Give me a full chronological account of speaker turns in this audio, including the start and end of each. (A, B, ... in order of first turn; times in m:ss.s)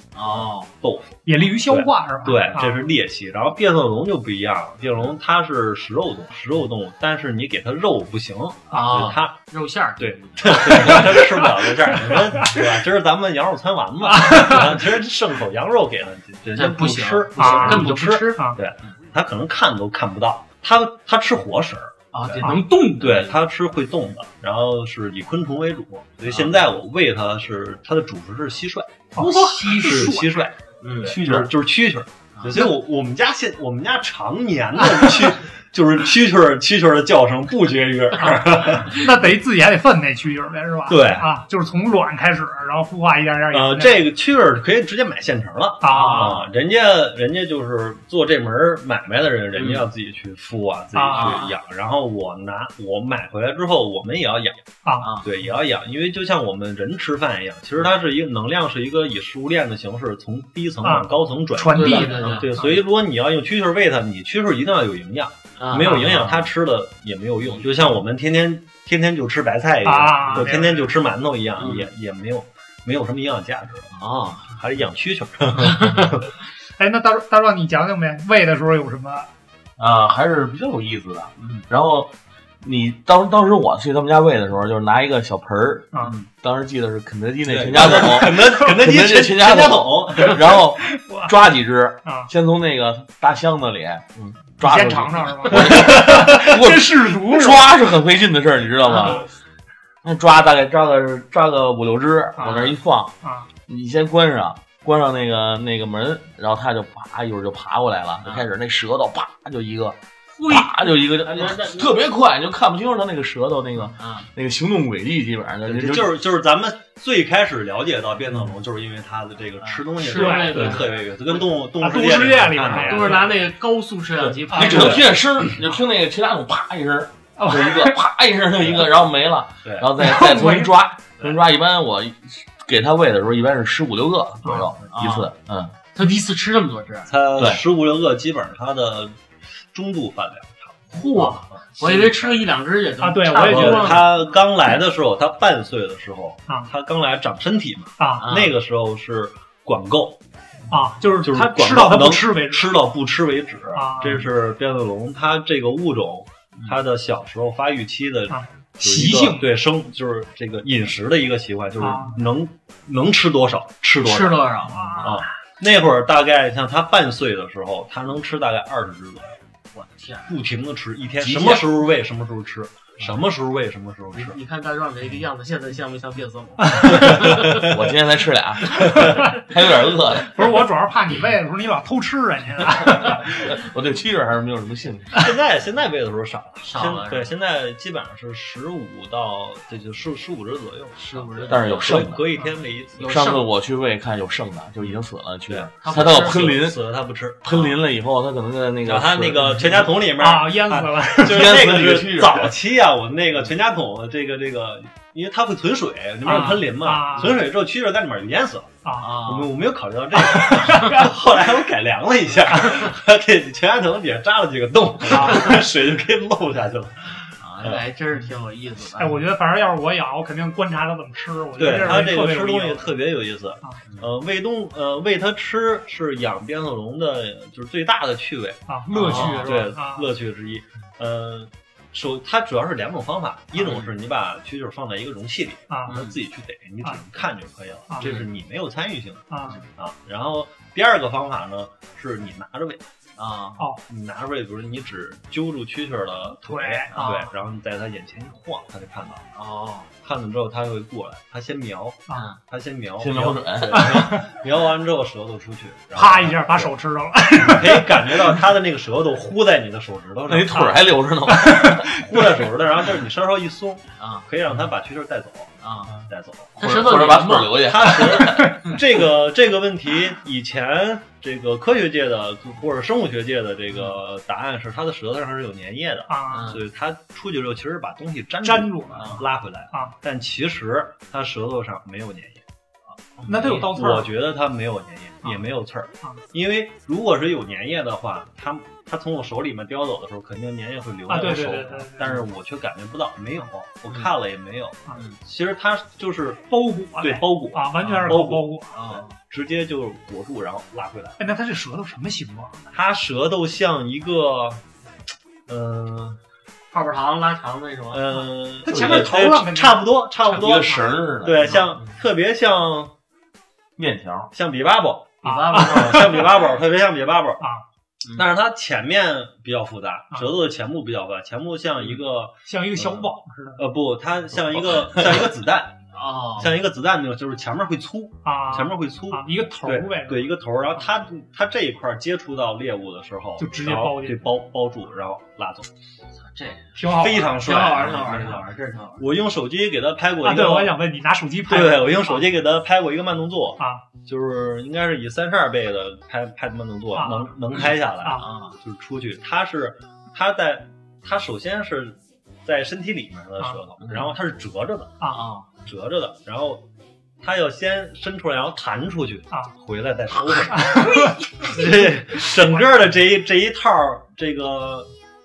0:00.2-0:00.7 A
0:00.3-0:09.4 B
0:01.3-0:02.9 C
0:08.7-0:11.2 A
0:10.0-0:39.1 B
0:10.8-0:12.6 C
0:14.1-0:14.8 C
0:16.6-0:18.5 A
0:17.4-0:18.6 C
0:22.1-0:23.4 A
0:26.3-0:26.6 A
0:29.2-0:30.4 C
0:29.2-0:29.8 A
0:30.8-0:31.2 A
0:31.2-0:31.5 D
0:32.4-0:32.6 A
0:38.3-0:44.0 C
0:40.9-0:41.3 B
0:43.5-0:54.6 B
0:45.8-0:46.4 C
0:45.9-0:46.4 A
0:49.6-0:49.9 A
0:50.9-0:51.4 C
0:51.1-0:51.5 A
0:55.0-0:55.3 A
0:55.2-1:13.9 B
1:00.8-1:02.7 C
1:01.7-1:02.8 A
1:05.6-1:06.5 A
1:09.8-1:10.9 C
1:11.6-1:11.9 A
1:13.9-1:14.5 A
1:14.5-1:16.3 B
1:15.6-1:16.2 A
1:16.8-1:19.3 C
1:19.8-1:39.3 D
1:21.4-1:21.7 A
1:27.4-1:30.6 B
1:30.9-1:31.4 C
1:32.0-1:32.3 C
1:34.6-1:37.7 C
1:38.9-1:39.3 C
1:40.0-1:43.1 D
1:42.4-1:43.5 C
1:42.4-1:42.7 A
1:43.7-1:56.2 D
1:48.2-1:48.5 A
1:50.3-1:51.9 A
1:54.0-1:54.3 A
1:55.6-2:03.3 B
1:59.6-2:01.4 A
2:00.0-2:00.9 C
2:01.8-2:03.3 C
2:02.7-2:05.1 A
2:04.5-2:15.7 D
2:04.5-2:05.0 C
2:04.6-2:05.1 B
2:07.4-2:08.0 C
2:08.6-2:08.9 B
2:09.6-2:09.9 B
2:10.0-2:10.8 C
2:14.4-2:14.7 C
2:14.9-2:15.3 A
2:15.9-2:17.1 A
2:17.1-2:19.2 B
2:19.7-2:22.5 B
2:20.9-2:24.1 A
2:23.0-2:24.0 C
2:23.4-2:30.2 B
2:28.0-2:28.3 C
2:28.2-2:28.5 A
2:30.7-2:32.7 C
2:31.2-2:49.4 B
2:33.8-2:34.3 C
2:38.3-2:39.5 C
2:41.8-2:42.2 C
2:44.0-2:45.2 A
2:44.7-2:45.2 C
2:49.7-2:50.4 A
2:50.3-2:54.4 B
2:51.2-2:51.6 D
2:54.1-2:57.7 A
2:56.7-2:57.0 C
2:56.9-2:57.7 B
2:57.3-3:00.6 D
2:58.8-2:59.2 B
3:00.3-3:03.5 C
3:03.1-3:05.2 D
3:05.1-3:13.2 B
3:06.6-3:07.3 A
3:11.0-3:12.1 A
3:11.5-3:12.2 D
3:13.0-3:13.5 A
3:13.0-3:16.8 D
3:15.5-3:17.7 B
3:15.8-3:16.6 A
3:17.4-3:19.8 D
3:18.8-3:37.8 B
3:20.2-3:21.6 C
3:21.2-3:22.5 D
3:26.2-3:27.4 C
3:26.3-3:26.6 A
3:28.8-3:29.1 C
3:29.0-3:29.5 A
3:30.3-3:31.1 C
3:35.1-3:35.6 C
3:37.4-3:39.2 A
3:39.0-3:42.9 C
3:41.6-4:02.8 B
3:48.7-3:50.1 C
3:48.9-3:49.6 A
3:53.6-3:53.9 A
3:55.7-3:56.0 C
3:55.9-3:56.2 A
3:58.0-3:58.3 A
3:59.3-3:59.6 C
4:03.2-4:03.6 A
4:03.9-4:09.3 B
4:06.4-4:07.3 C
4:09.4-4:09.9 A
4:10.0-4:16.7 B
4:12.1-4:12.4 A
4:13.0-4:13.9 D
4:13.7-4:14.3 C
4:16.0-4:18.4 C
4:17.3-4:20.8 B
4:20.3-4:22.0 D
4:21.3-4:22.0 C
4:21.9-4:42.4 B
4:24.0-4:24.3 A
4:25.6-4:25.9 A
4:26.6-4:28.1 A
4:26.6-4:28.7 D
4:36.1-4:36.6 C
4:36.3-4:36.6 A
4:38.4-4:39.9 C
4:38.9-4:39.2 A
4:43.2-4:43.7 A
4:43.3-4:44.1 C
4:43.4-4:56.5 B
4:51.1-4:52.2 C
4:54.9-4:55.2 A
4:56.5-4:58.8 C
4:57.0-5:01.2 B
4:57.8-4:58.2 A
4:58.7-4:59.1 A
5:01.2-5:02.7 C
5:02.7-5:04.6 B
5:05.5-5:06.2 B
5:06.7-5:08.0 A
5:07.9-5:12.9 B
5:08.6-5:09.9 C
5:08.7-5:09.1 D
5:10.3-5:11.6 D
5:11.4-5:12.0 A
5:13.8-5:14.3 D
5:14.3-5:17.4 B
5:15.2-5:16.3 A
5:15.2-5:16.3 C
5:18.2-5:25.7 B
5:22.5-5:23.6 C
5:25.9-5:26.6 A
5:26.4-5:35.7 B
5:28.2-5:30.3 C
5:33.4-5:34.2 C
5:36.2-5:39.1 A
5:36.8-5:38.2 C
5:36.9-5:38.4 B
5:39.0-5:40.8 B
5:40.2-5:42.2 C
5:41.5-5:55.0 B
5:47.0-5:47.4 C
5:47.5-5:48.6 A
5:48.0-5:48.3 C
5:53.8-5:54.1 A
5:55.1-5:55.5 A
5:55.6-5:56.6 B
5:57.2-6:04.9 B
6:00.5-6:01.5 C